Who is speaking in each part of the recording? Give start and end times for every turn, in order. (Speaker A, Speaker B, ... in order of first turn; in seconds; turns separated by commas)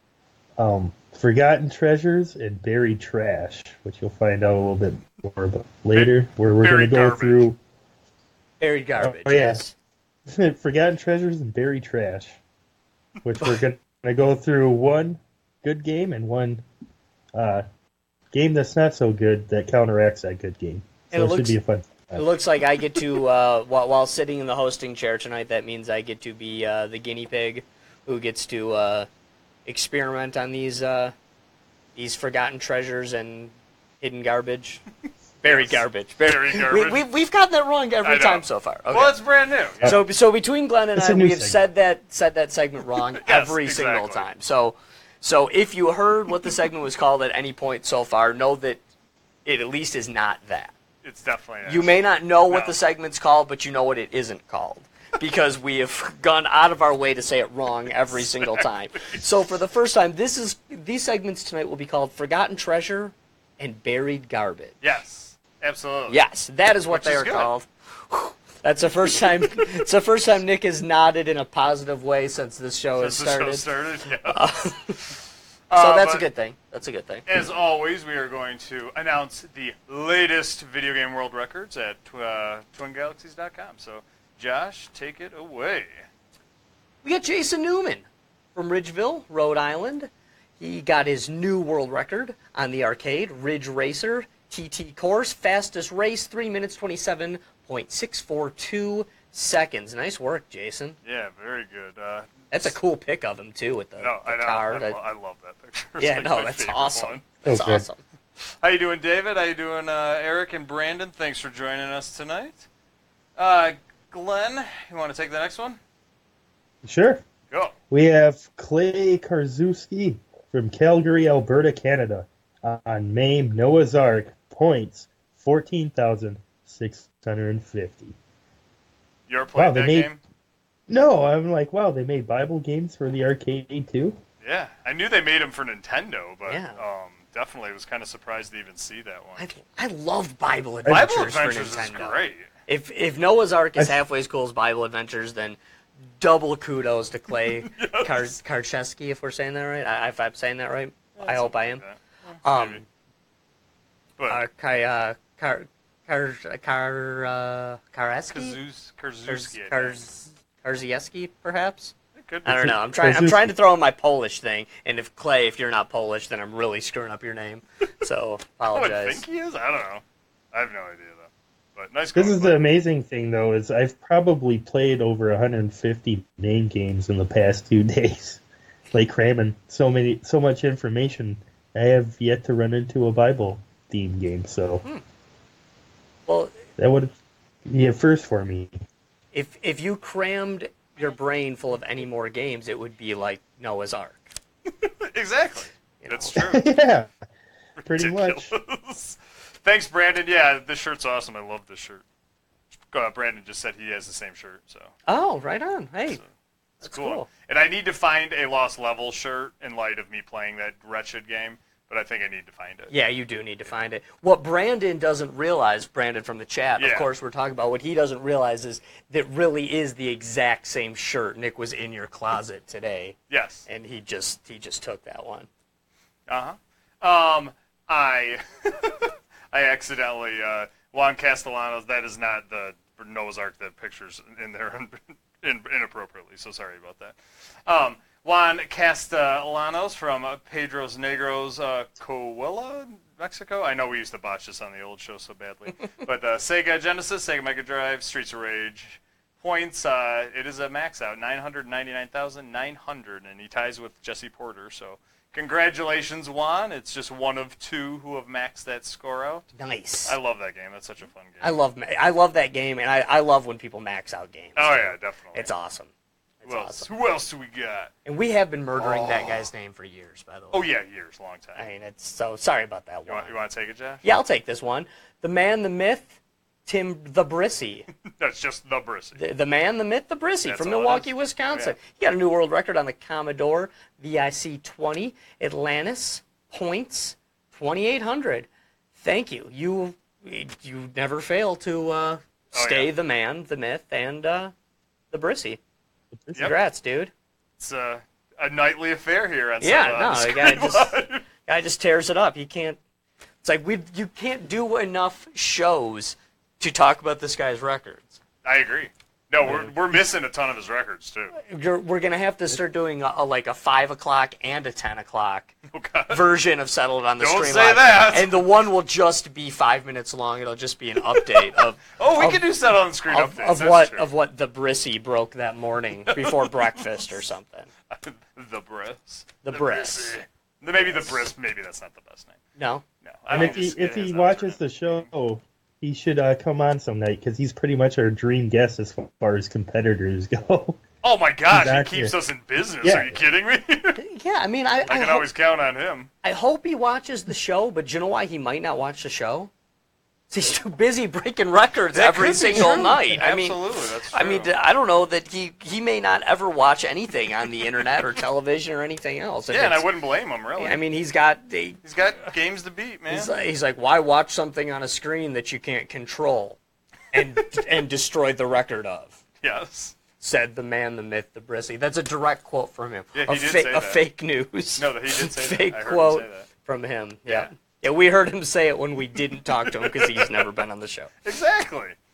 Speaker A: 0.6-7.6, Speaker B: 5.9-7.5, Speaker C: 8.6-9.7, Speaker A: 9.0-9.6, Speaker A: 10.3-12.4, Speaker A: 13.2-16.6, Speaker A: 17.3-17.6, Speaker A: 18.3-22.3, Speaker C: 21.1-21.6, Speaker C: 22.1-29.1, Speaker C: 29.7-31.1, Speaker C: 32.0-34.8, Speaker C: 35.4-39.2, Speaker B: 35.4-37.1, Speaker B: 38.0-40.0, Speaker C: 39.8-48.8, Speaker A: 41.0-41.6, Speaker B: 43.2-44.3, Speaker C: 49.5-50.7, Speaker B: 51.0-52.0, Speaker C: 51.6-64.8, Speaker B: 52.5-52.8, Speaker B: 58.1-59.2, Speaker B: 64.8-66.2, Speaker C: 66.1-73.7, Speaker B: 66.9-67.5, Speaker B: 73.0-74.4, Speaker C: 74.3-75.2, Speaker B: 75.7-76.3, Speaker C: 75.7-77.4, Speaker B: 77.3-85.9, Speaker C: 87.0-101.0, Speaker B: 101.0-102.7, Speaker C: 102.5-105.0, Speaker B: 104.0-107.3, Speaker C: 106.0-108.0, Speaker A: 107.5-107.8, Speaker B: 108.6-112.6, Speaker B: 113.4-115.8, Speaker A: 116.8-117.2, Speaker A: 117.9-128.2, Speaker B: 129.3-130.2, Speaker A: 129.5-130.1, Speaker A: 130.9-134.2, Speaker B: 134.4-139.5, Speaker C: 136.5-136.8, Speaker C: 139.4-145.6, Speaker B: 140.9-142.5, Speaker C: 146.2-151.8, Speaker B: 147.7-148.4, Speaker B: 151.2-152.9, Speaker C: 152.4-152.8, Speaker B: 154.2-154.4, Speaker C: 154.3-158.6, Speaker B: 158.3-160.0, Speaker C: 159.3-161.9, Speaker B: 162.2-162.7, Speaker C: 162.4-169.2, Speaker A: 162.6-163.6, Speaker B: 168.7-172.6, Speaker A: 172.2-184.8, Speaker C: 186.3-186.6, Speaker A: 186.8-187.1, Speaker A: 187.7-188.7, Speaker C: 189.3-194.3, Speaker B: 194.8-196.7, Speaker C: 196.0-196.4, Speaker A: 196.4-197.1, Speaker B: 197.8-202.0, Speaker A: 197.9-198.6, Speaker B: 202.9-204.9, Speaker C: 205.1-206.2, Speaker C: 206.8-207.3, Speaker B: 206.8-212.9, Speaker C: 212.9-223.2, Speaker B: 216.8-217.1, Speaker B: 223.3-223.7, Speaker C: 223.7-225.5, Speaker B: 226.3-259.5, Speaker C: 259.6-260.1, Speaker B: 260.1-261.6, Speaker C: 261.4-265.9, Speaker B: 264.6-265.5, Speaker C: 266.4-266.9, Speaker B: 266.4-267.9, Speaker C: 268.1-270.6, Speaker B: 268.8-269.5, Speaker B: 270.5-271.6, Speaker C: 271.6-273.4, Speaker B: 273.1-274.1, Speaker C: 274.0-277.9, Speaker B: 278.1-279.2, Speaker C: 279.2-294.5, Speaker B: 280.4-281.8, Speaker B: 292.5-292.9, Speaker C: 295.1-295.6, Speaker C: 296.3-297.1, Speaker B: 297.6-301.3, Speaker C: 299.6-302.8, Speaker C: 303.4-308.2, Speaker B: 308.4-311.4, Speaker C: 309.4-309.8, Speaker C: 311.4-315.5, Speaker B: 315.7-316.3, Speaker C: 316.1-322.5, Speaker B: 317.2-318.5, Speaker B: 321.1-324.1, Speaker C: 323.1-327.7, Speaker B: 326.1-327.1, Speaker B: 327.9-332.4, Speaker C: 329.4-330.2, Speaker C: 330.8-331.2, Speaker C: 332.6-333.6, Speaker B: 333.0-335.1, Speaker A: 333.3-340.8, Speaker B: 341.0-344.0, Speaker A: 341.5-342.1, Speaker A: 342.8-343.2, Speaker C: 344.0-345.3, Speaker B: 344.9-346.1, Speaker C: 346.2-349.5, Speaker C: 350.3-359.9, Speaker B: 351.9-354.5, Speaker B: 359.5-360.8, Speaker C: 360.6-361.8, Speaker B: 361.8-363.3, Speaker C: 363.1-366.6, Speaker C: 367.1-369.2, Speaker B: 369.4-370.0, Speaker C: 370.2-381.1, Speaker B: 373.1-374.0, Speaker B: 374.8-376.5, Speaker B: 379.6-380.5, Speaker B: 381.2-382.0